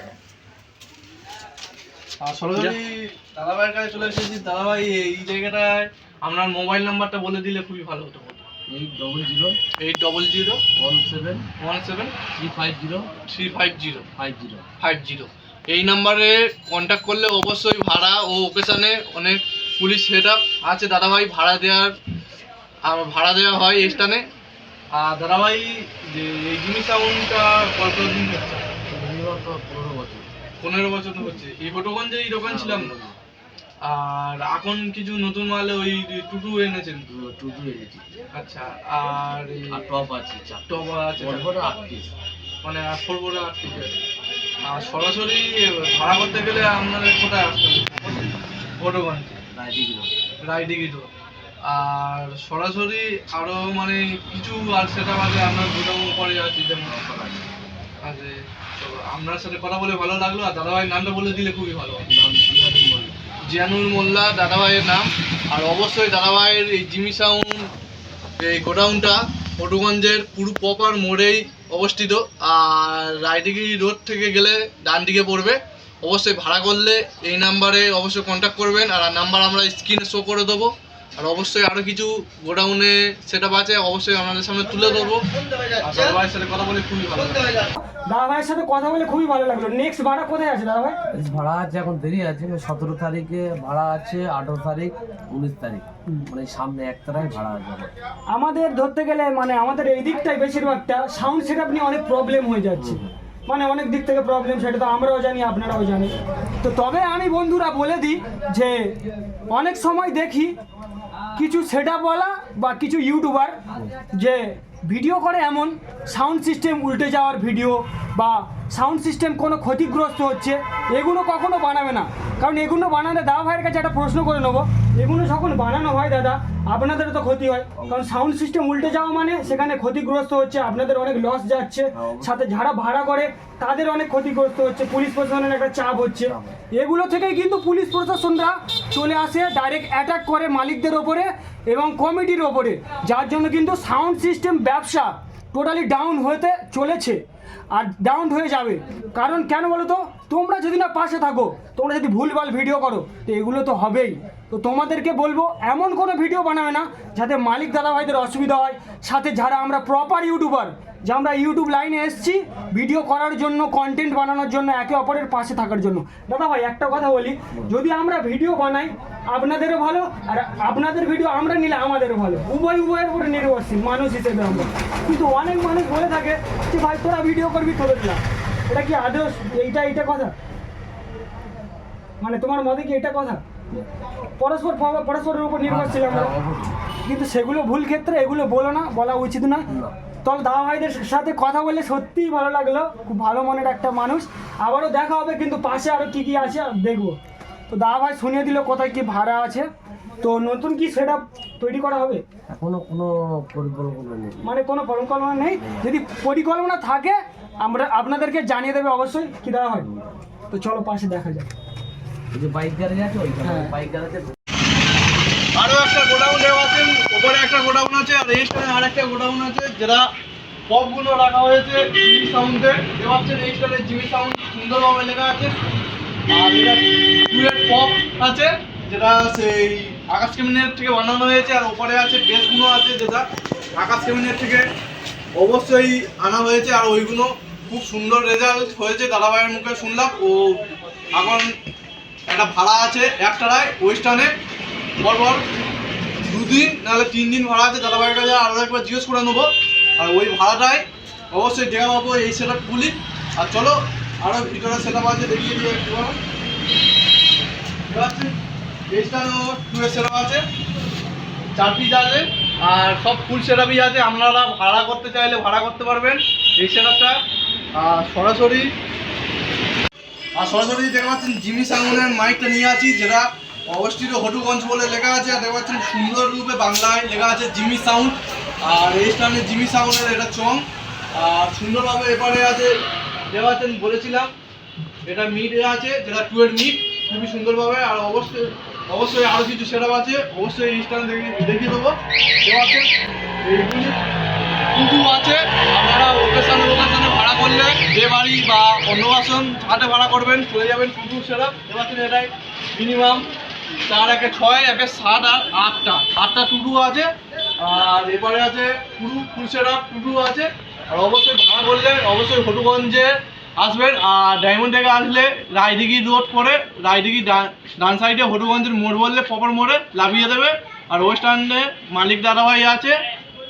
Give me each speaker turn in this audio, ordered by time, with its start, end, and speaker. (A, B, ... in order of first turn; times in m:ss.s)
0:02.2-0:08.5 A
0:08.7-0:09.6 B
0:09.8-0:10.6 A
0:10.8-0:11.5 B
0:11.6-0:12.2 A
0:12.4-0:13.1 B
0:13.3-0:14.1 A
0:14.2-0:14.7 B
0:14.8-0:21.9 A
0:22.9-0:24.2 A
0:25.0-0:28.6 A
0:28.9-0:30.3 B
0:30.6-0:32.9 A
0:32.4-0:33.2 B
0:33.8-0:37.0 A
0:37.1-0:38.0 B
0:38.3-0:39.8 A
0:39.7-0:42.1 B
0:40.7-0:41.7 A
0:42.6-0:44.0 A
0:44.6-0:48.3 A
0:48.8-0:49.4 A
0:49.5-0:50.1 B
0:50.4-0:51.1 A
0:51.7-0:57.0 A
0:56.9-0:57.5 B
0:58.0-1:02.1 A
1:02.1-1:03.2 B
1:03.5-1:07.7 A
1:08.4-1:25.2 A
1:25.8-1:27.7 A
1:27.8-1:31.0 C
1:31.1-1:37.9 B
1:38.3-1:48.9 C
1:42.8-1:43.1 B
1:49.5-1:50.6 C
1:51.4-1:53.6 C
1:54.1-2:27.2 C
2:07.8-2:08.0 B
2:12.0-2:12.3 B
2:16.2-2:16.5 B
2:27.7-3:00.3 C
3:02.2-3:03.4 C
3:04.4-3:06.3 C
3:05.7-3:06.8 B
3:07.1-3:09.7 C
3:09.7-3:09.9 B
3:10.2-3:17.2 C
3:17.7-3:19.7 C
3:20.2-3:22.2 C
3:22.5-3:24.4 B
3:24.4-3:29.9 C
3:25.6-3:25.9 B
3:29.8-3:30.2 B
3:30.5-3:31.5 C
3:32.3-3:34.4 B
3:33.4-3:33.7 C
3:35.6-3:40.1 A
3:40.7-3:45.5 A
3:46.3-3:53.3 A
3:53.8-3:54.7 A
3:55.4-4:01.5 A
4:02.3-4:04.3 A
4:05.0-4:05.4 A
4:06.2-4:16.2 A
4:17.9-4:18.4 A
4:18.9-4:20.4 A
4:21.6-4:27.2 A
4:27.7-4:28.7 A
4:30.4-4:42.8 A
4:43.3-4:44.3 A
4:45.0-4:52.9 A
4:53.4-4:54.0 A
4:54.7-5:03.3 A
5:03.9-5:23.0 A